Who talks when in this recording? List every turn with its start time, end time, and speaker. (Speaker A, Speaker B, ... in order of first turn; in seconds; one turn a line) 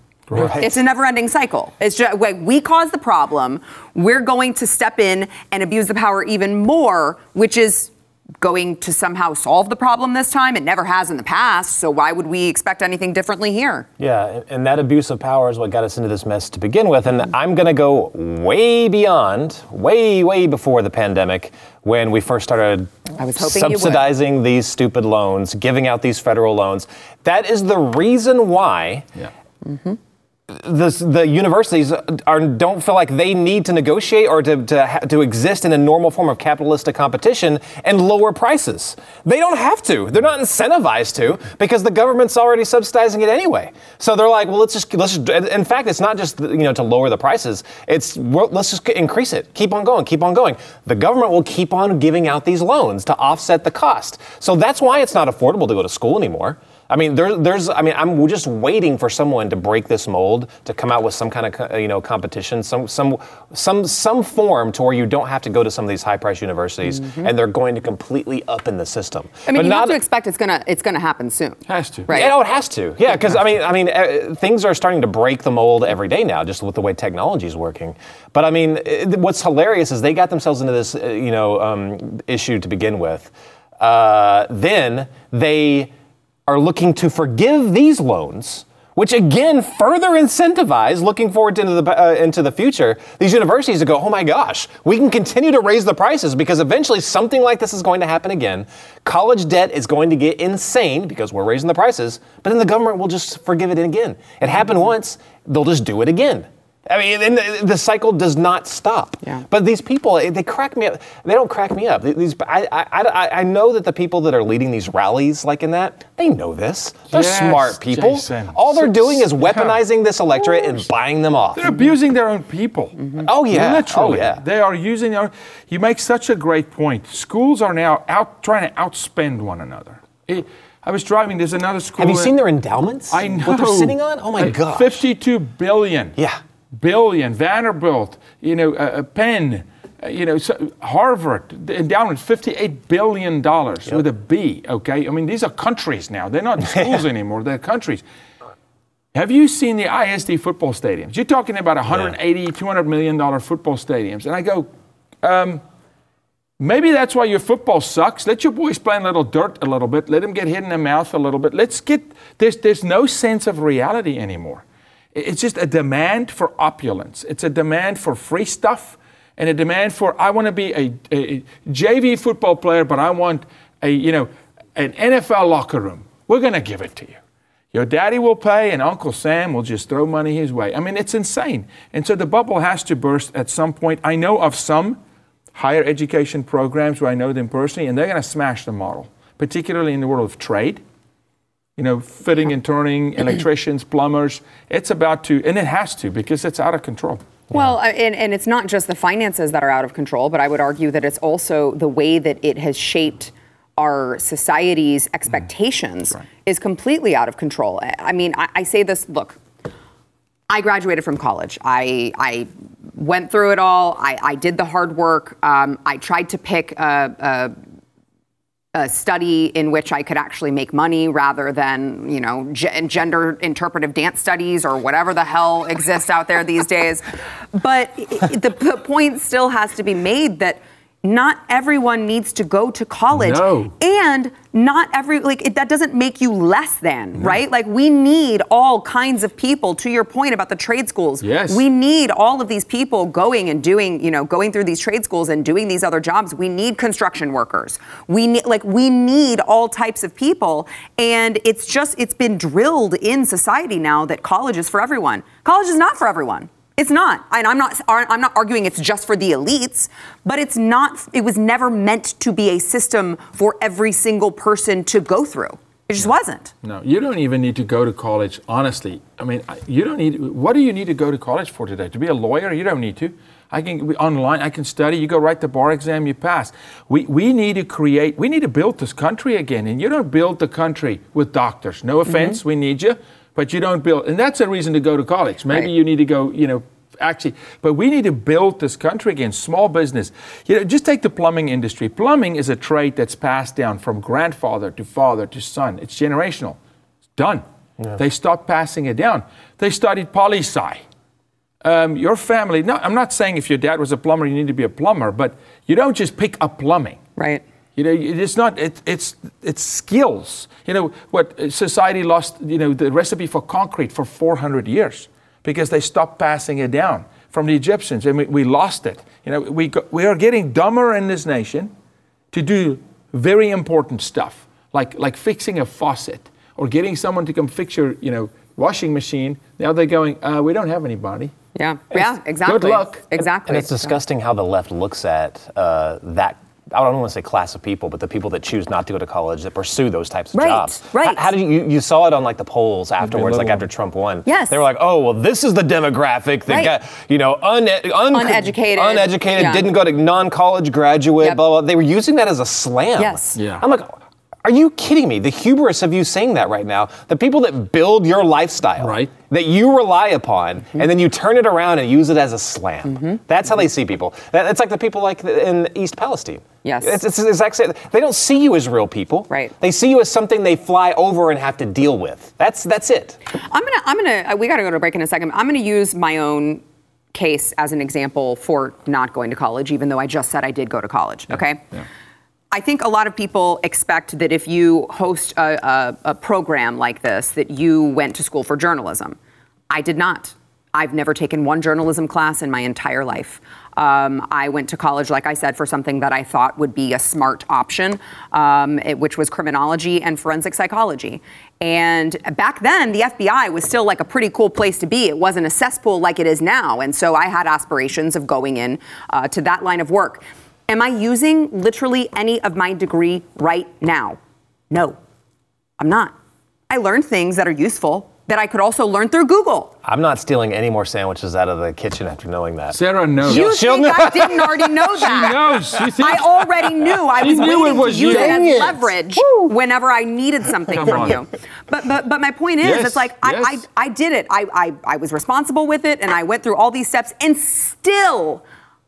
Speaker A: 0.3-0.6
Speaker B: 0.3-0.7
Speaker C: 0.6-13.9
Speaker B: 14.0-29.1
Speaker C: 23.2-24.1
Speaker C: 29.6-30.0
Speaker B: 30.5-70.0
Speaker C: 66.9-67.3
Speaker C: 69.5-72.3
Speaker A: 71.7-72.1
Speaker B: 72.1-85.9
Speaker B: 86.5-121.7
Speaker A: 117.1-119.8
Speaker A: 120.4-120.8
Speaker A: 121.5-132.3
Speaker B: 123.2-124.4
Speaker B: 132.0-135.0
Speaker A: 133.1-136.2
Speaker B: 136.2-136.4
Speaker A: 136.8-148.0
Speaker B: 146.7-147.0
Speaker A: 149.1-154.7
Speaker B: 151.9-152.1
Speaker A: 155.2-155.6
Speaker A: 156.6-177.2
Speaker A: 177.7-185.0
Speaker A: 185.6-190.8
Speaker A: 191.8-197.2
Speaker C: 197.5-209.4
Speaker C: 210.5-217.5
Speaker C: 218.7-266.5
Speaker A: 233.1-233.7
Speaker A: 241.2-241.6
Speaker A: 266.6-296.6
Speaker C: 282.1-282.4
Speaker A: 297.2-297.4
Speaker A: 297.9-300.8
Speaker A: 301.6-307.0
Speaker C: 307.2-307.4
Speaker A: 307.8-321.7
Speaker A: 322.3-331.3
Speaker C: 331.6-334.0
Speaker A: 332.4-333.0
Speaker B: 333.2-373.2
Speaker C: 340.3-341.2
Speaker A: 343.0-343.7
Speaker C: 344.3-344.6
Speaker C: 346.5-346.7
Speaker C: 348.1-349.7
Speaker C: 353.0-353.4
Speaker A: 353.4-353.6
Speaker A: 358.8-359.1
Speaker C: 362.9-363.2
Speaker C: 366.6-367.0
Speaker C: 373.4-376.6
Speaker C: 377.1-381.6
Speaker C: 382.5-389.2
Speaker C: 389.7-414.2
Speaker C: 414.7-415.0
Speaker C: 415.8-416.1
Speaker C: 416.7-419.7
Speaker B: 419.8-424.6
Speaker A: 422.7-424.2
Speaker C: 423.3-438.4
Speaker A: 424.8-429.5
Speaker B: 428.0-428.8
Speaker A: 430.7-431.2
Speaker A: 432.6-433.6